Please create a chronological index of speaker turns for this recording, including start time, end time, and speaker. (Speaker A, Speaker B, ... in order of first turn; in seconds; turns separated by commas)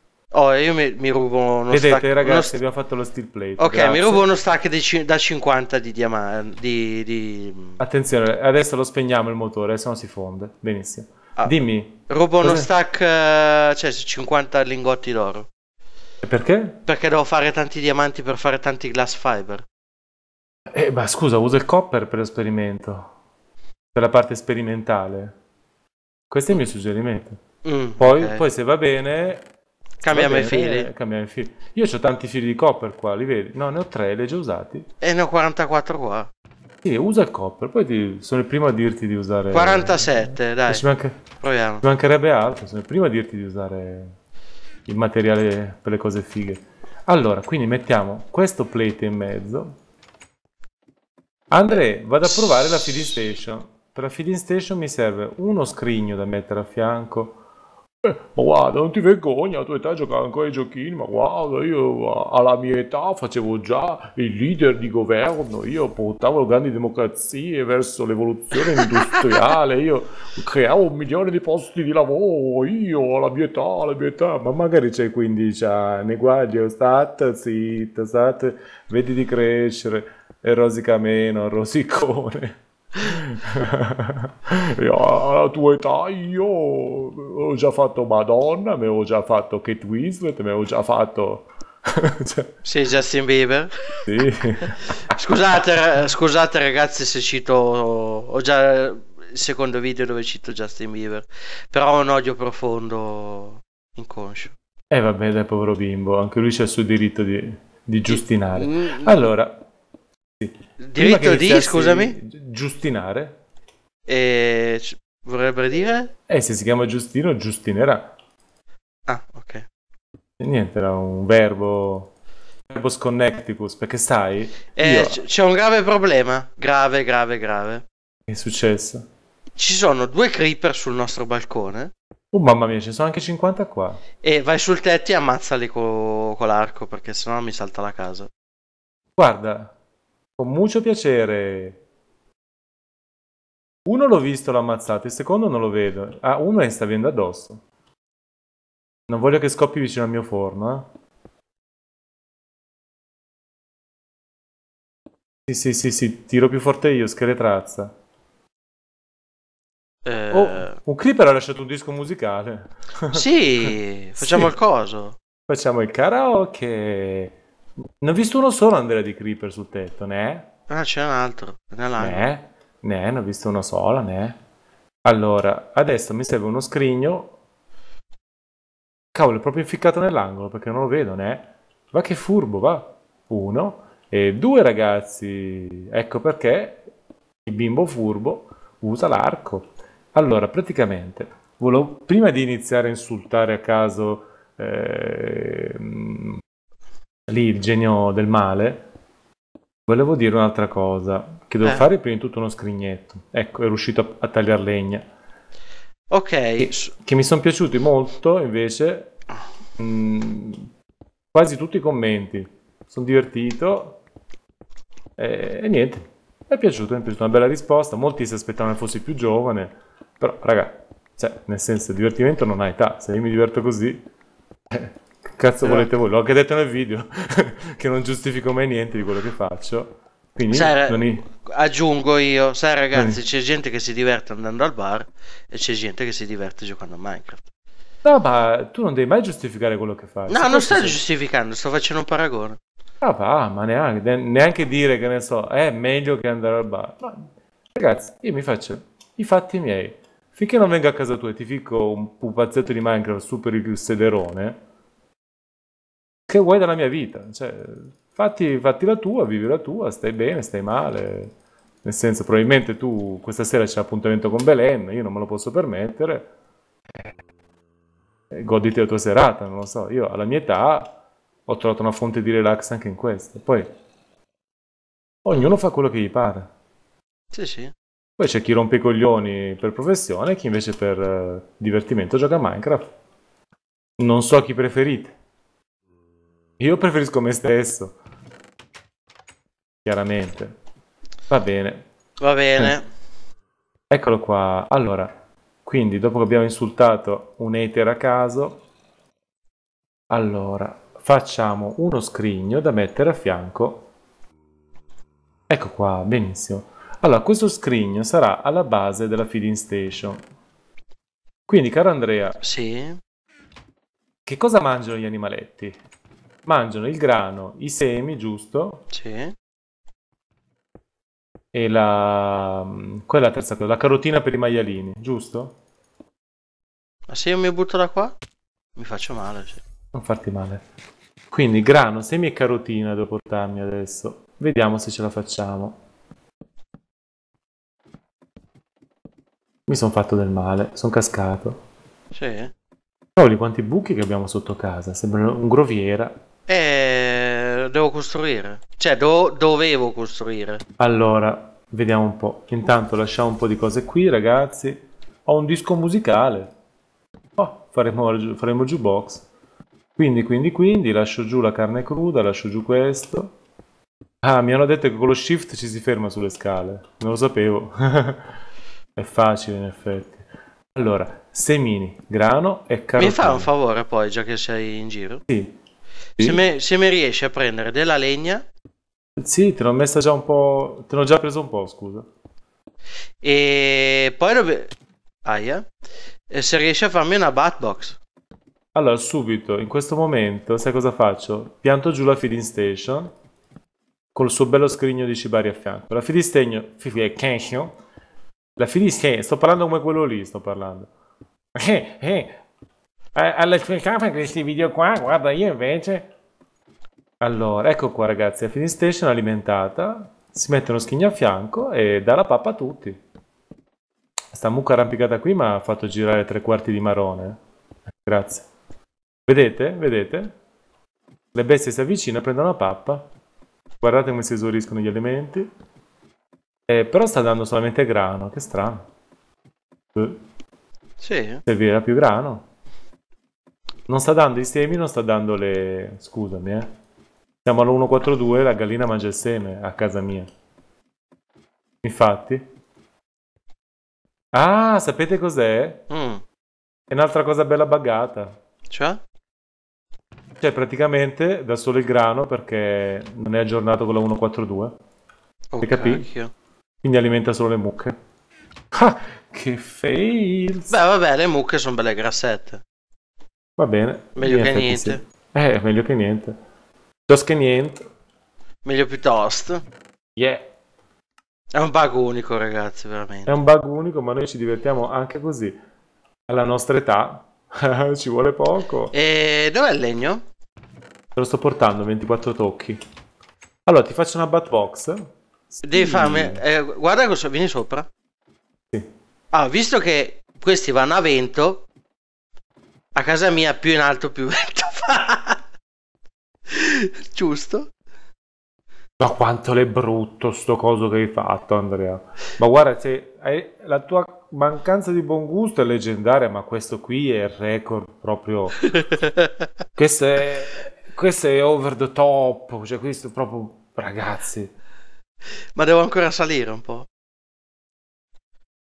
Speaker A: 0.3-2.5, Speaker B: 1.7-4.3, Speaker A: 3.6-7.8, Speaker B: 7.8-12.7, Speaker A: 12.1-15.5, Speaker B: 16.2-16.8, Speaker A: 16.8-19.6, Speaker B: 20.7-23.1, Speaker B: 23.9-25.3, Speaker B: 26.3-27.4, Speaker A: 27.6-28.4, Speaker B: 28.0-29.4, Speaker A: 30.0-30.9, Speaker B: 30.0-34.9, Speaker A: 35.0-36.3, Speaker B: 36.8-41.2, Speaker A: 39.5-40.8, Speaker A: 41.4-41.8, Speaker B: 41.8-44.1, Speaker B: 44.9-49.7, Speaker B: 51.5-57.4, Speaker B: 58.0-92.5, Speaker A: 92.6-94.0, Speaker B: 94.0-95.1, Speaker A: 94.6-104.5, Speaker B: 104.9-109.6, Speaker A: 108.1-109.3, Speaker B: 110.4-113.4, Speaker A: 110.8-112.2, Speaker A: 114.1-116.1, Speaker B: 116.3-118.1, Speaker A: 119.1-119.7, Speaker B: 120.4-122.1, Speaker B: 122.7-125.2, Speaker A: 124.8-127.8, Speaker B: 128.3-129.1, Speaker A: 129.6-131.9, Speaker B: 132.3-134.0, Speaker A: 134.2-138.3, Speaker B: 139.2-139.7, Speaker B: 140.4-141.8, Speaker B: 143.8-147.6, Speaker B: 149.1-150.9, Speaker B: 155.5-157.9, Speaker A: 160.0-160.8, Speaker B: 160.3-164.5, Speaker A: 163.1-165.2, Speaker B: 165.5-167.3, Speaker B: 168.0-170.5, Speaker A: 170.7-172.3, Speaker B: 172.0-174.4, Speaker B: 175.0-177.3, Speaker B: 179.1-186.8, Speaker B: 187.4-196.4, Speaker B: 197.3-198.8, Speaker B: 199.9-205.1, Speaker A: 206.1-206.9, Speaker B: 206.6-209.1, Speaker B: 209.8-210.7, Speaker B: 211.3-214.0, Speaker B: 215.2-224.0, Speaker B: 224.7-231.2, Speaker A: 225.6-225.9, Speaker A: 230.5-237.5, Speaker B: 232.9-233.2, Speaker B: 238.0-241.0, Speaker A: 240.3-242.6, Speaker B: 243.0-254.6, Speaker B: 256.3-266.3, Speaker B: 268.3-270.9, Speaker B: 271.5-273.7, Speaker B: 275.2-276.5, Speaker A: 277.3-277.7, Speaker B: 278.2-282.9, Speaker B: 284.0-285.1, Speaker B: 286.6-287.9, Speaker B: 289.8-290.6, Speaker B: 291.3-291.9, Speaker A: 292.2-292.9, Speaker B: 293.9-295.1, Speaker B: 295.6-298.6, Speaker B: 300.1-303.9, Speaker B: 305.5-310.2, Speaker B: 311.5-312.4, Speaker A: 312.4-313.0, Speaker B: 314.2-315.8, Speaker B: 316.4-318.8, Speaker A: 318.9-319.3, Speaker B: 321.5-325.6, Speaker A: 327.1-328.1, Speaker A: 328.8-329.6, Speaker B: 329.9-330.6, Speaker B: 331.3-335.8, Speaker B: 339.7-341.6, Speaker A: 342.1-342.5, Speaker B: 343.1-346.1, Speaker A: 346.5-350.6, Speaker B: 350.8-356.5, Speaker B: 357.4-359.2, Speaker B: 359.9-363.3, Speaker B: 364.2-368.3, Speaker B: 368.9-370.2, Speaker B: 370.7-373.5, Speaker A: 373.0-375.2, Speaker B: 375.3-375.6, Speaker A: 376.2-378.5, Speaker B: 379.2-382.1, Speaker A: 383.2-384.7, Speaker A: 385.2-385.7, Speaker A: 386.3-388.0, Speaker B: 388.7-393.1, Speaker B: 394.1-397.8, Speaker B: 398.6-400.9, Speaker B: 401.5-402.4, Speaker B: 403.1-406.1, Speaker B: 407.2-413.0, Speaker B: 414.3-417.4, Speaker B: 418.0-418.5, Speaker B: 419.3-420.3, Speaker B: 421.3-423.1, Speaker B: 423.8-425.5, Speaker B: 426.7-428.9, Speaker B: 429.9-430.2, Speaker A: 431.0-431.4, Speaker B: 431.4-432.4, Speaker B: 433.9-436.7, Speaker B: 437.4-440.3, Speaker B: 441.8-442.4, Speaker B: 444.3-445.8, Speaker A: 445.9-446.2, Speaker B: 446.9-448.4, Speaker A: 448.7-449.0, Speaker B: 450.4-454.8, Speaker A: 455.5-456.3, Speaker B: 455.6-456.1, Speaker B: 456.8-457.9, Speaker B: 458.7-460.8, Speaker A: 460.7-462.6, Speaker B: 463.6-466.4, Speaker A: 464.2-465.0, Speaker B: 467.1-467.8, Speaker A: 468.6-469.6, Speaker B: 470.1-470.4, Speaker A: 471.5-473.4, Speaker B: 473.2-475.6, Speaker B: 476.3-478.9, Speaker A: 478.9-480.2, Speaker B: 481.1-482.8, Speaker B: 483.6-485.0, Speaker B: 485.5-486.4, Speaker A: 485.6-487.9, Speaker A: 489.3-491.6, Speaker A: 492.9-495.4, Speaker A: 496.5-497.7, Speaker B: 499.0-508.6, Speaker A: 508.7-509.3, Speaker B: 509.8-514.5, Speaker A: 515.5-516.9